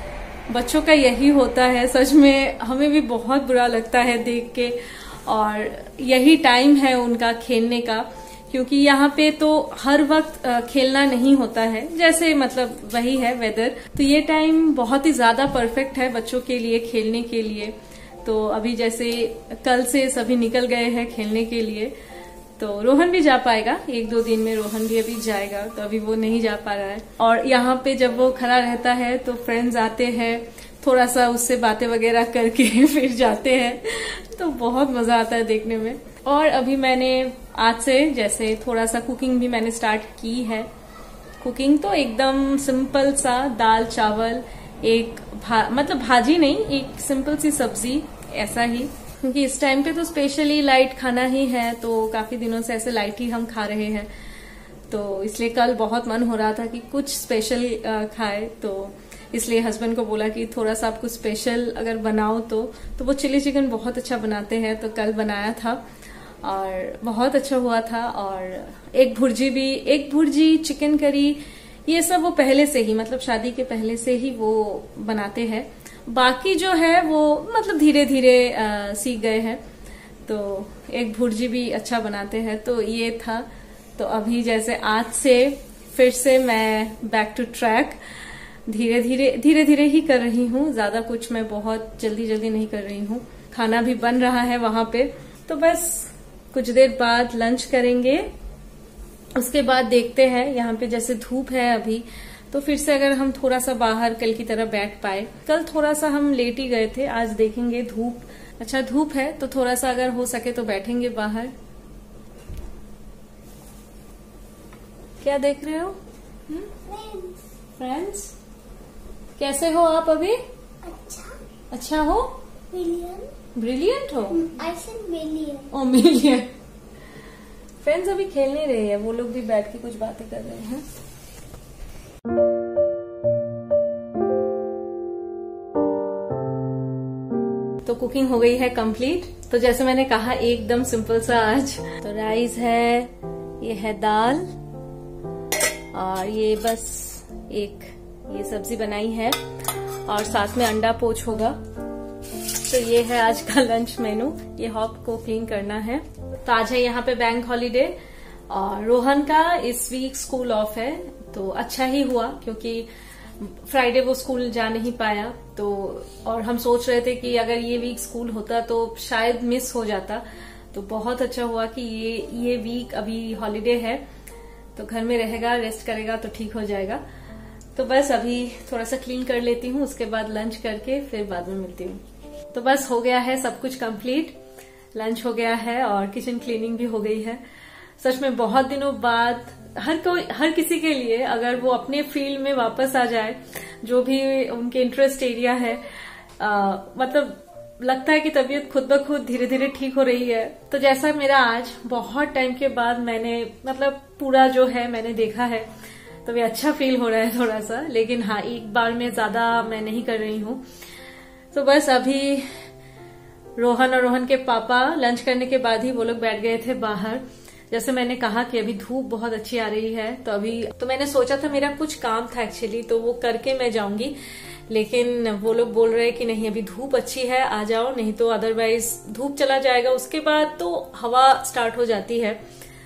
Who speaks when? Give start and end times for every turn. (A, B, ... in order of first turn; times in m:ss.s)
0:00.5-0:21.9 A
0:22.6-0:40.7 A
0:41.4-0:54.1 A
0:54.9-1:05.8 A
1:06.4-1:19.6 A
1:20.2-1:28.0 A
1:28.6-1:38.3 A
1:39.4-1:51.5 A
1:55.2-1:56.0 A
1:56.8-1:57.4 B
1:57.8-1:58.3 A
1:59.4-2:00.4 A
2:00.8-2:01.4 B
2:01.7-2:02.4 A
2:02.7-2:03.3 B
2:03.5-2:04.5 A
2:04.4-2:05.7 B
2:05.7-2:06.5 A
2:07.8-2:10.8 A
2:17.8-2:24.5 A
2:25.9-2:31.6 A
2:32.6-2:38.0 A
2:38.5-2:42.9 A
2:43.4-2:54.0 A
2:54.8-2:57.0 A
2:57.7-3:04.4 A
3:04.9-3:07.4 A
3:08.0-3:25.7 A
3:26.2-3:30.6 A
3:31.5-3:32.7 A
3:33.6-3:44.2 A
3:44.7-3:52.4 A